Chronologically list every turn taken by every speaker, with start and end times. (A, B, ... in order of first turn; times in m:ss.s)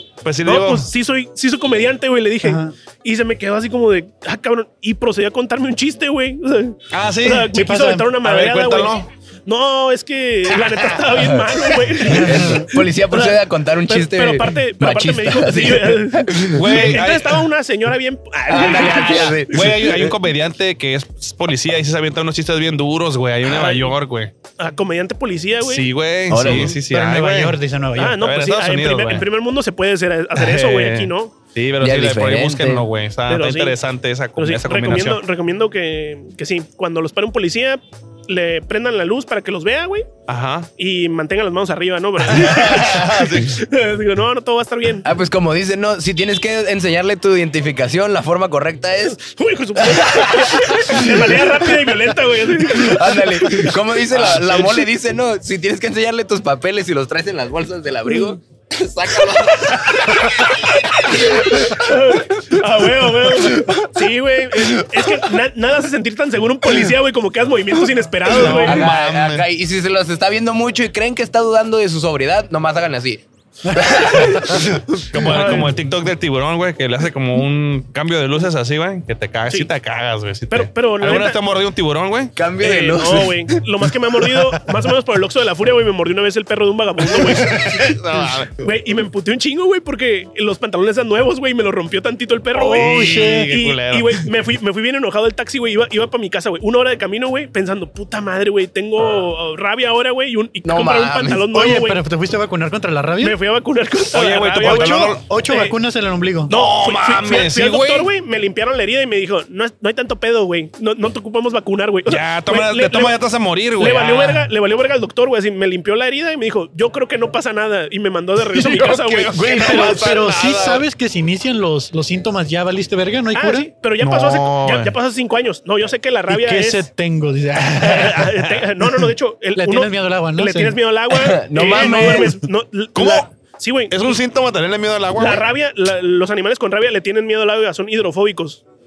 0:00.2-0:00.9 A
0:00.4-0:08.9 B
0:02.4-0:02.7 C
0:06.9-0:07.5 A
0:07.5-0:08.1 C
0:08.2-0:09.0 A
0:09.5-0:12.5 B
0:10.7-0:16.9 D
0:12.0-0:12.7 C
0:13.1-0:19.7 B
0:16.5-0:17.4 A
0:18.5-0:20.1 D
0:19.5-0:24.3 A
0:23.4-0:24.0 B
0:24.6-0:25.9 B
0:25.6-0:27.6 A
0:26.3-0:26.7 D
0:26.6-0:28.2 C
0:28.0-0:31.4 B
0:28.2-0:29.2 A
0:30.3-0:35.2 A
0:31.8-0:32.9 D
0:33.3-0:33.8 B
0:34.4-0:40.1 B
0:40.3-0:40.7 A
0:40.8-0:45.0 B
0:42.2-0:43.6 A
0:45.0-0:49.2 D
0:49.1-0:53.6 B
0:49.8-0:51.2 D
0:52.7-1:01.8 D
1:01.3-1:08.8 B
1:08.3-1:09.4 A
1:08.4-1:14.8 D
1:13.6-1:14.7 C
1:15.1-1:22.3 A
1:15.2-1:15.7 B
1:20.5-1:21.4 B
1:22.4-1:23.4 D
1:22.6-1:28.0 B
1:27.5-1:28.6 A
1:28.6-1:42.0 B
1:32.6-1:34.2 A
1:32.6-1:33.5 C
1:40.6-1:41.4 D
1:41.5-1:43.4 C
1:43.2-1:45.7 B
1:44.1-1:45.2 A
1:44.6-1:46.5 C
1:46.5-1:48.1 A
1:46.5-1:53.2 B
1:52.1-1:54.4 A
1:53.8-2:00.1 B
1:58.6-2:00.8 A
1:59.3-2:03.7 C
2:03.3-2:06.9 B
2:04.0-2:04.9 A
2:06.3-2:08.3 C
2:07.8-2:14.2 B
2:09.6-2:10.8 C
2:11.1-2:12.3 D
2:12.9-2:13.2 A
2:13.9-2:15.5 A
2:15.2-2:18.6 B